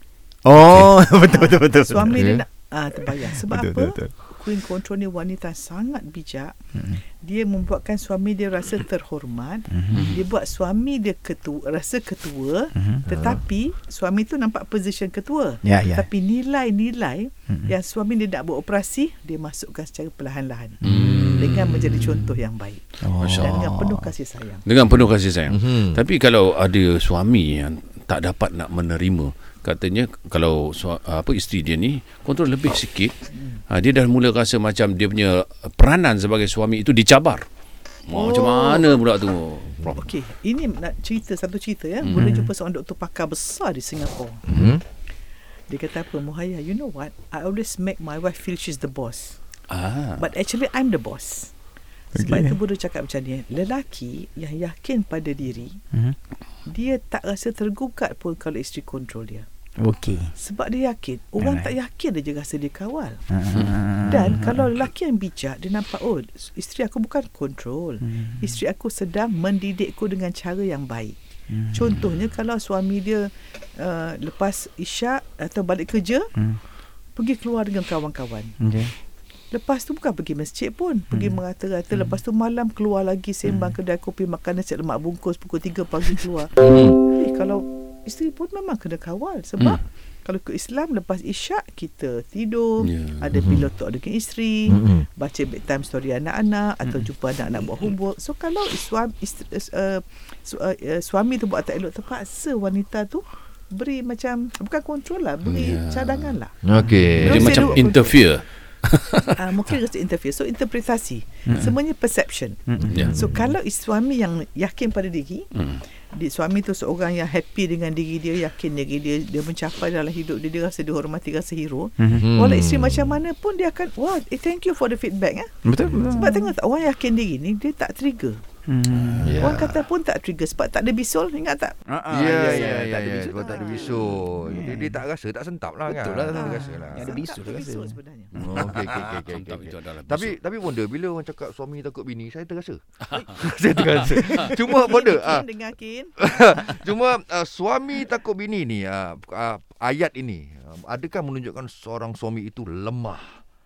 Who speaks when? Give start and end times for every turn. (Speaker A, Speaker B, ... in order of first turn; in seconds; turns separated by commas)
Speaker A: 0.4-2.3, Speaker B: 1.1-6.5, Speaker C: 2.1-2.4, Speaker A: 3.2-4.1, Speaker B: 7.2-24.9, Speaker A: 9.7-10.0, Speaker D: 9.9-10.2, Speaker A: 12.7-13.0, Speaker C: 13.1-13.4, Speaker A: 15.6-16.1, Speaker D: 20.8-21.7, Speaker A: 23.0-24.1, Speaker D: 23.2-23.7, Speaker D: 24.6-33.1, Speaker C: 25.5-26.0, Speaker B: 33.3-33.6, Speaker D: 33.7-37.4, Speaker D: 38.1-40.0, Speaker B: 38.1-39.0, Speaker B: 39.9-44.5, Speaker D: 42.0-42.3, Speaker A: 42.2-42.5, Speaker C: 44.5-44.8, Speaker B: 45.7-49.4, Speaker D: 49.7-50.3, Speaker B: 50.2-51.5, Speaker B: 52.1-55.8, Speaker A: 52.1-52.5, Speaker B: 56.6-59.5, Speaker A: 59.8-60.3, Speaker B: 60.3-63.2, Speaker A: 61.4-61.7, Speaker A: 63.3-64.5, Speaker B: 64.0-71.2, Speaker A: 68.0-68.4, Speaker A: 71.5-71.8, Speaker B: 71.7-76.3, Speaker B: 77.2-78.5, Speaker A: 78.6-78.9, Speaker B: 79.5-106.6, Speaker C: 86.6-87.0, Speaker D: 92.8-93.6, Speaker C: 94.7-95.0, Speaker D: 105.4-106.4, Speaker C: 106.6-107.8, Speaker D: 106.9-109.3, Speaker B: 107.2-108.4, Speaker B: 109.3-115.5, Speaker A: 111.5-111.7, Speaker A: 112.7-113.0, Speaker C: 112.8-113.5, Speaker D: 112.9-113.2, Speaker D: 115.6-115.8, Speaker B: 116.1-125.5, Speaker C: 122.1-123.2, Speaker A: 125.6-126.5, Speaker B: 126.0-128.4, Speaker A: 128.7-129.7, Speaker C: 129.0-129.7, Speaker B: 129.3-131.8, Speaker A: 131.8-135.0, Speaker C: 132.1-137.2, Speaker B: 133.3-134.1, Speaker A: 135.9-138.0, Speaker B: 136.3-138.6, Speaker D: 138.3-140.4, Speaker C: 138.4-142.8, Speaker B: 143.2-143.4, Speaker C: 143.3-145.5, Speaker B: 144.2-146.7, Speaker C: 146.2-153.4